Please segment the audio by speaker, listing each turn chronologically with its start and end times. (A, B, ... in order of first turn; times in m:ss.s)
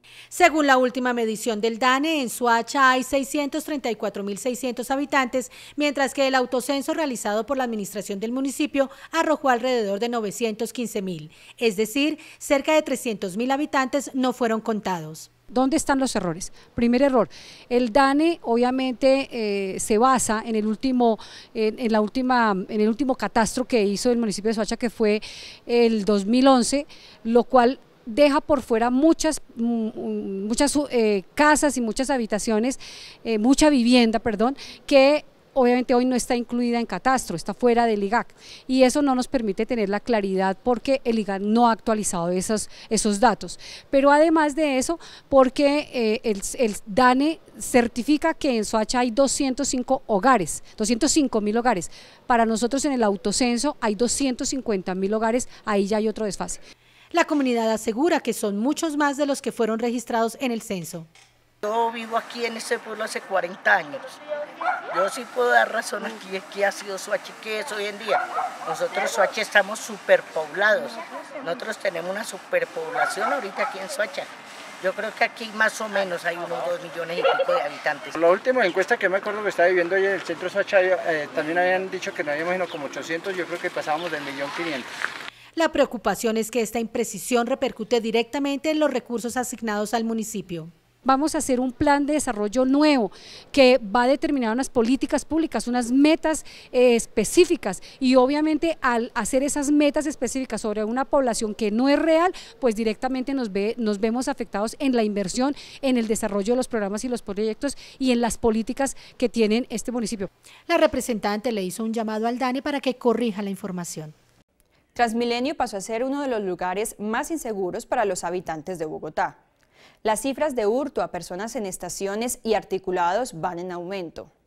0:00.3-0:15.3 A
0:15.5-0:56.6 B
0:57.1-1:01.1 A
1:01.6-1:04.2 C
1:04.9-1:18.6 C
1:18.7-1:24.2 D
1:25.6-1:30.7 A
1:31.0-1:50.3 B
1:50.7-1:54.1 A
1:55.0-1:59.4 E
2:00.0-2:04.3 E